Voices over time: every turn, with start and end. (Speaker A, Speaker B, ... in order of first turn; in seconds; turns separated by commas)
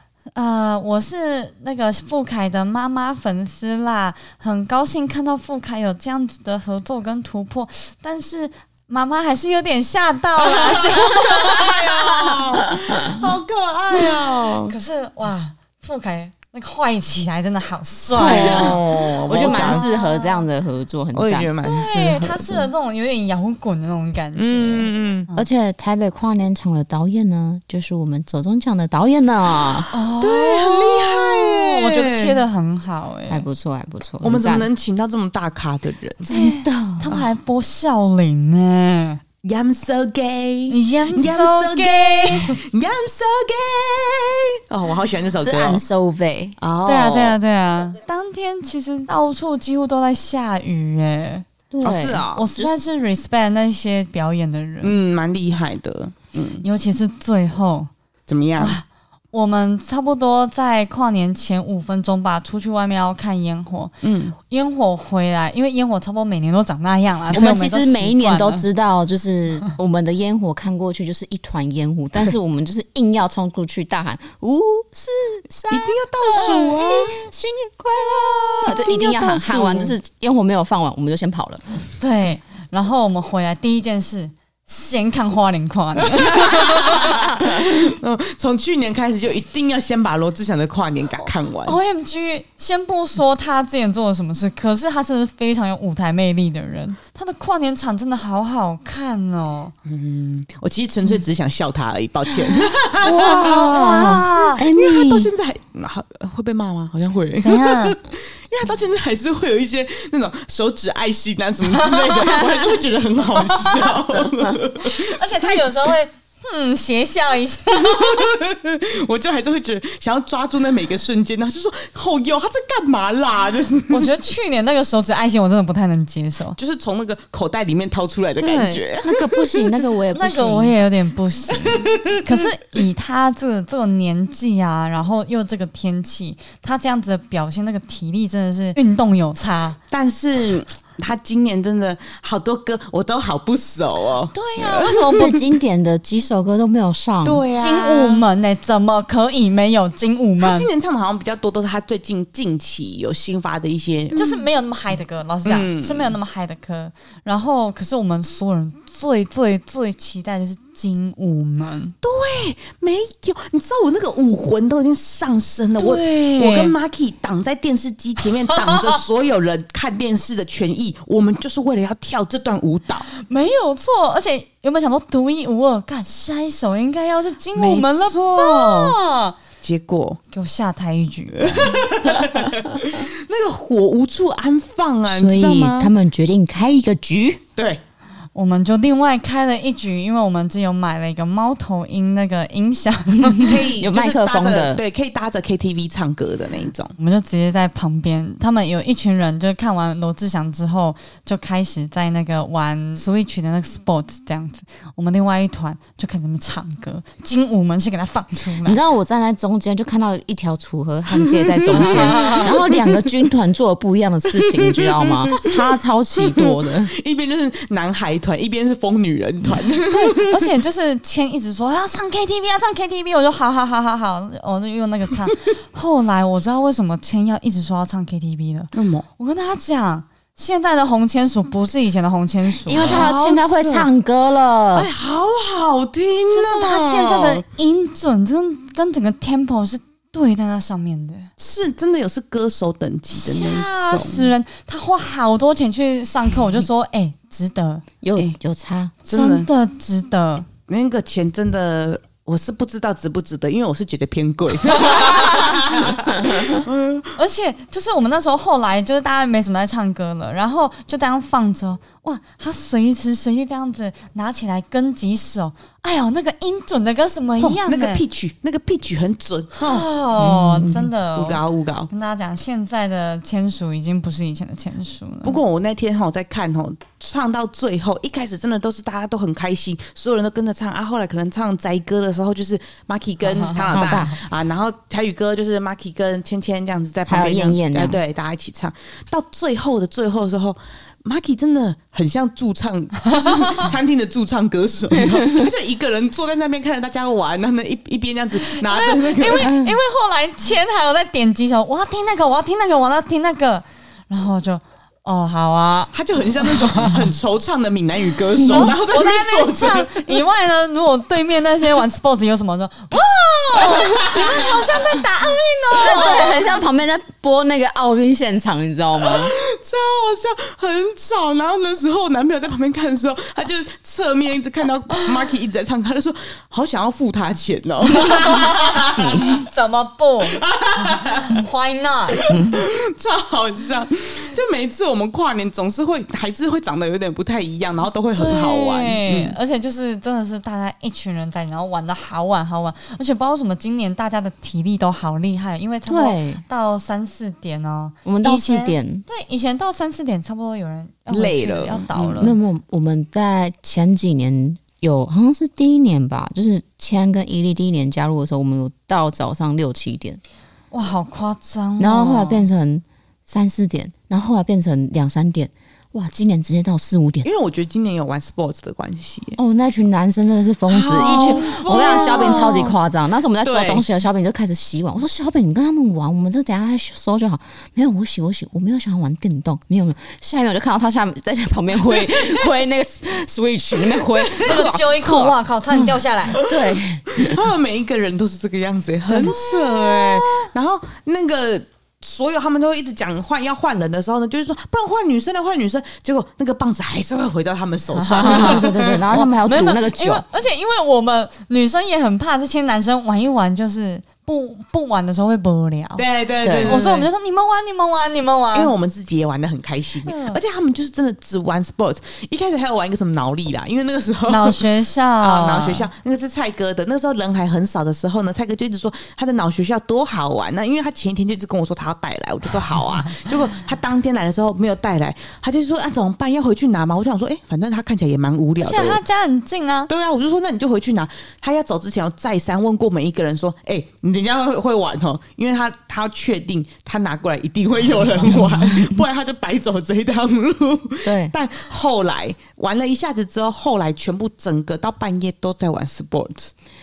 Speaker A: 0.3-11.8, Speaker B: 10.5-14.7, Speaker A: 14.7-18.8, Speaker B: 18.1-19.8, Speaker C: 18.1-21.5, Speaker A: 19.3-20.4, Speaker B: 21.1-22.7, Speaker A: 21.6-25.5, Speaker B: 24.4-25.3, Speaker C: 25.3-29.9, Speaker A: 29.9-33.5, Speaker B: 30.2-32.4, Speaker C: 33.3-34.7, Speaker B: 34.2-36.3, Speaker C: 36.2-37.1, Speaker A: 36.3-39.2, Speaker B: 39.4-45.8, Speaker A: 40.7-42.5, Speaker C: 45.4-46.5, Speaker B: 46.6-47.4, Speaker A: 46.8-51.5, Speaker C: 51.7-52.8, Speaker B: 51.8-52.5, Speaker A: 52.3-54.9, Speaker B: 54.8-56.6, Speaker A: 56.6-57.9, Speaker B: 58.3-58.8, Speaker A: 58.6-68.6, Speaker B: 64.0-64.3, Speaker C: 67.3-81.7, Speaker B: 75.7-77.2, Speaker A: 76.3-76.8, Speaker B: 78.7-79.9, Speaker A: 78.7-78.9, Speaker A: 82.0-87.1, Speaker B: 86.2-91.8, Speaker A: 91.6-99.7, Speaker B: 99.8-115.9, Speaker C: 103.0-105.3, Speaker A: 103.0-104.6, Speaker A: 107.4-108.0, Speaker A: 111.7-112.6, Speaker A: 113.4-113.9, Speaker A: 114.8-118.3, Speaker B: 117.7-124.1, Speaker A: 123.9-126.6, Speaker B: 126.6-129.7, Speaker C: 128.4-130.8, Speaker A: 130.1-139.8, Speaker B: 131.8-132.1, Speaker B: 139.9-145.4, Speaker A: 144.3-145.3, Speaker C: 145.2-147.4, Speaker B: 147.2-148.2, Speaker A: 147.6-150.7, Speaker B: 150.4-154.2, Speaker A: 154.1-161.9, Speaker B: 155.4-156.1, Speaker B: 162.0-173.1, Speaker A: 165.8-166.7, Speaker A: 168.5-169.0, Speaker A: 173.1-179.3, Speaker B: 177.5-179.0, Speaker B: 179.6-180.2, Speaker A: 180.3-181.9, Speaker B: 181.4-185.9, Speaker C: 185.1-187.4, Speaker B: 187.6-187.8, Speaker A: 188.3-193.5, Speaker B: 193.4-196.9, Speaker C: 193.8-194.8, Speaker A: 197.0-208.8, Speaker C: 208.6-216.9, Speaker B: 211.2-213.1, Speaker A: 211.7-212.5, Speaker B: 214.4-215.6, Speaker B: 216.2-220.5, Speaker A: 219.9-233.2, Speaker B: 228.7-229.1, Speaker C: 232.6-234.9, Speaker B: 232.7-233.9, Speaker B: 234.7-237.4, Speaker A: 236.2-241.3, Speaker B: 241.4-244.3, Speaker A: 243.1-247.8, Speaker C: 248.0-248.9, Speaker B: 249.1-249.5, Speaker A: 249.1-250.5, Speaker B: 250.7-257.2, Speaker A: 254.8-255.2, Speaker A: 257.1-268.0, Speaker B: 267.4-269.9, Speaker A: 269.6-275.4, Speaker C: 270.2-270.9, Speaker B: 270.6-271.9, Speaker B: 275.2-299.5, Speaker A: 283.3-284.1, Speaker C: 283.7-284.2, Speaker C: 287.1-288.0, Speaker A: 293.1-293.6, Speaker A: 298.4-306.9, Speaker C: 299.4-299.7, Speaker B: 305.9-310.1, Speaker A: 308.4-316.5, Speaker B: 313.6-314.6, Speaker C: 315.8-319.4, Speaker B: 315.9-316.4, Speaker B: 319.0-329.3, Speaker A: 328.0-332.2, Speaker C: 329.0-329.3, Speaker B: 330.2-331.4, Speaker B: 332.1-339.3, Speaker C: 332.3-332.6, Speaker A: 338.1-352.3, Speaker C: 345.9-346.4, Speaker C: 348.0-349.0, Speaker B: 351.1-352.3, Speaker C: 352.2-360.2, Speaker A: 360.7-362.5, Speaker C: 361.8-367.3, Speaker B: 367.2-369.4, Speaker C: 369.4-387.4, Speaker B: 370.7-372.7, Speaker A: 370.9-372.7, Speaker B: 373.4-373.8, Speaker B: 384.2-384.6, Speaker A: 384.4-386.4, Speaker B: 386.3-399.3, Speaker C: 389.1-389.4, Speaker A: 389.1-390.5, Speaker A: 397.9-408.7, Speaker C: 398.2-400.2, Speaker B: 406.0-407.1, Speaker C: 406.4-406.8, Speaker B: 408.5-414.6, Speaker A: 410.1-410.4, Speaker A: 414.3-415.9, Speaker B: 415.2-429.0, Speaker A: 428.6-429.9, Speaker B: 429.9-446.5, Speaker C: 438.3-439.0, Speaker C: 441.0-441.3